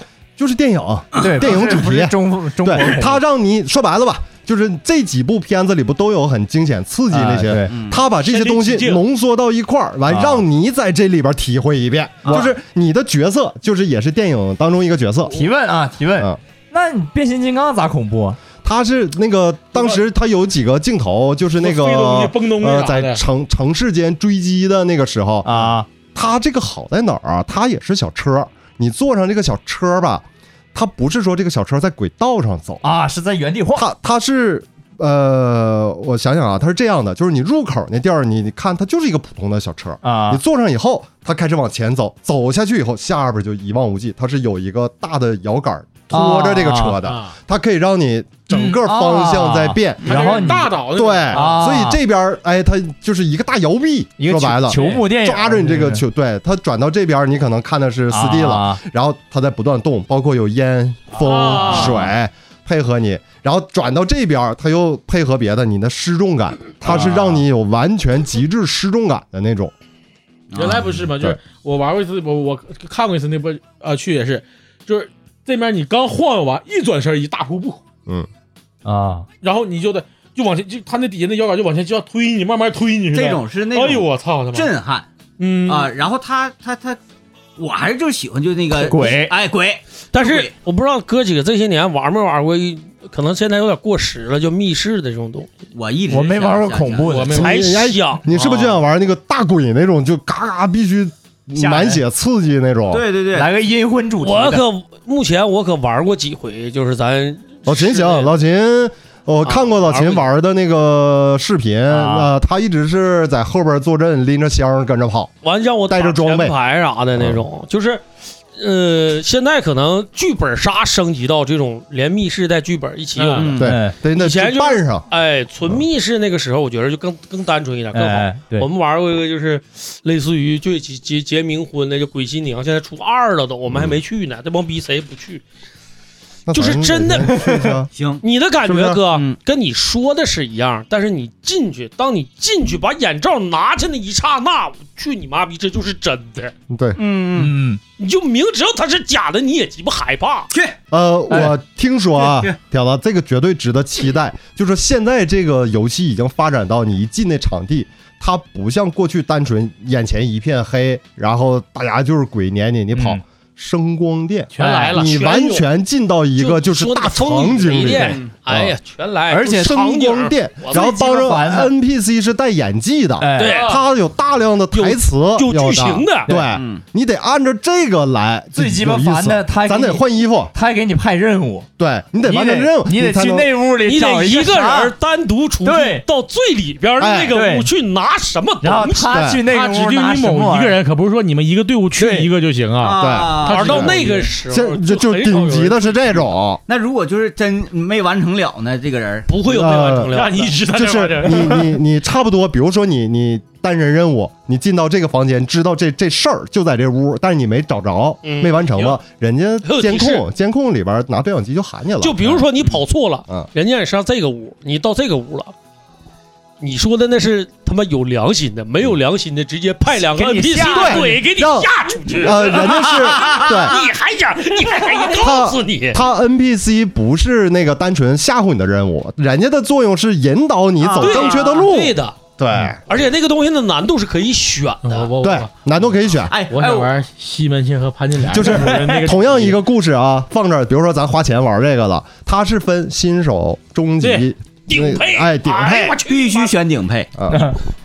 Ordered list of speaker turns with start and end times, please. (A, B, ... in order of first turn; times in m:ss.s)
0:00.4-0:15.4 A
0:01.2-0:03.2 B
0:07.1-0:07.8 B
0:07.7-0:08.0 C
0:08.3-0:09.0 D
0:10.1-0:10.4 B
0:15.3-0:18.4 B
0:18.6-0:32.8 A
0:19.7-0:20.0 D
0:21.6-0:23.2 D
0:25.4-0:25.9 B
0:32.8-0:33.9 B
0:33.7-1:09.7 A
0:40.0-0:40.4 B
0:46.1-0:47.0 B
0:47.0-0:47.3 D
0:48.5-0:50.8 B
0:50.0-0:51.6 D
0:51.3-0:52.0 B
0:54.2-0:56.0 B
0:54.7-0:55.0 D
0:58.1-0:58.8 B
1:01.2-1:02.0 D
1:01.6-1:02.0 B
1:06.8-1:07.4 B
1:10.5-1:11.0 C
1:10.6-1:17.8 D
1:18.8-1:19.3 B
1:19.4-1:24.7 D
1:23.1-1:25.1 C
1:25.4-1:25.9 D
1:25.6-1:27.0 C
1:27.6-1:30.5 C
1:28.7-1:29.3 B
1:30.1-1:35.5 E
1:35.7-1:37.3 C
1:36.1-1:37.5 B
1:37.1-1:37.7 D
1:37.4-1:43.0 A
1:37.4-1:38.7 E
1:41.6-1:42.0 B
1:42.9-1:43.5 C
1:43.3-1:44.6 B
1:44.2-1:48.3 E
1:47.6-1:55.3 A
1:49.4-1:50.2 E
1:51.9-1:52.3 B
1:55.4-2:03.5 E
1:55.9-1:56.5 A
1:57.2-1:57.4 A
2:03.2-2:03.5 D
2:03.3-2:03.7 C
2:03.6-2:05.1 A
2:03.6-2:04.0 B
2:04.1-2:15.4 E
2:07.9-2:08.7 B
2:13.7-2:14.0 A
2:16.5-2:17.9 A
2:16.5-2:17.3 E
2:17.3-2:17.8 B
2:17.9-2:18.2 C
2:18.2-2:26.5 E
2:18.6-2:19.0 A
2:19.1-2:19.4 C
2:26.7-2:27.0 A
2:27.0-2:27.5 C
2:27.3-2:27.8 B
2:28.0-2:30.5 E
2:30.5-2:30.8 C
2:30.9-2:48.8 A
2:31.3-2:31.5 B
2:32.2-2:32.6 C
2:42.9-2:43.2 B
2:44.5-2:45.2 D
2:44.6-2:45.0 B
2:45.0-2:45.6 E
2:46.4-2:51.0 E
2:47.8-2:48.3 C
2:49.3-2:49.8 B
2:49.5-3:00.5 A
2:50.7-2:51.7 B
2:53.2-2:53.7 B
2:53.4-2:53.8 E
2:53.4-2:53.8 D
2:54.7-2:56.3 E
2:56.5-2:56.8 C
2:58.5-3:01.7 B
3:01.8-3:03.5 A
3:02.2-3:04.9 B
3:03.8-3:09.2 E
3:05.6-3:06.0 B
3:07.0-3:07.4 A
3:07.3-3:07.7 B
3:08.6-3:10.8 B
3:09.1-3:09.4 A
3:09.4-3:14.2 D
3:12.0-3:12.3 B
3:12.8-3:14.2 C
3:13.0-3:16.6 A
3:13.4-3:16.0 E
3:16.7-3:19.3 C
3:19.3-3:20.7 E
3:19.4-3:20.1 A
3:20.1-3:21.8 D
3:20.7-3:32.7 A
3:28.2-3:29.0 E
3:29.6-3:30.2 E
3:32.0-3:35.5 E
3:36.6-3:46.0 E
3:39.9-3:41.2 B
3:40.7-3:43.8 A
3:42.6-3:43.9 C
3:45.1-3:52.8 A
3:50.8-3:51.4 C
3:51.0-3:52.2 E
3:52.9-3:55.1 E
3:54.8-3:55.5 D
3:55.2-3:56.3 A
3:56.3-3:56.9 C
3:56.5-3:59.6 D
3:58.3-4:06.0 A
3:58.4-3:59.1 B
4:04.0-4:04.3 D
4:04.7-4:06.5 E
4:06.0-4:07.1 C
4:07.2-4:07.5 A
4:07.3-4:07.6 B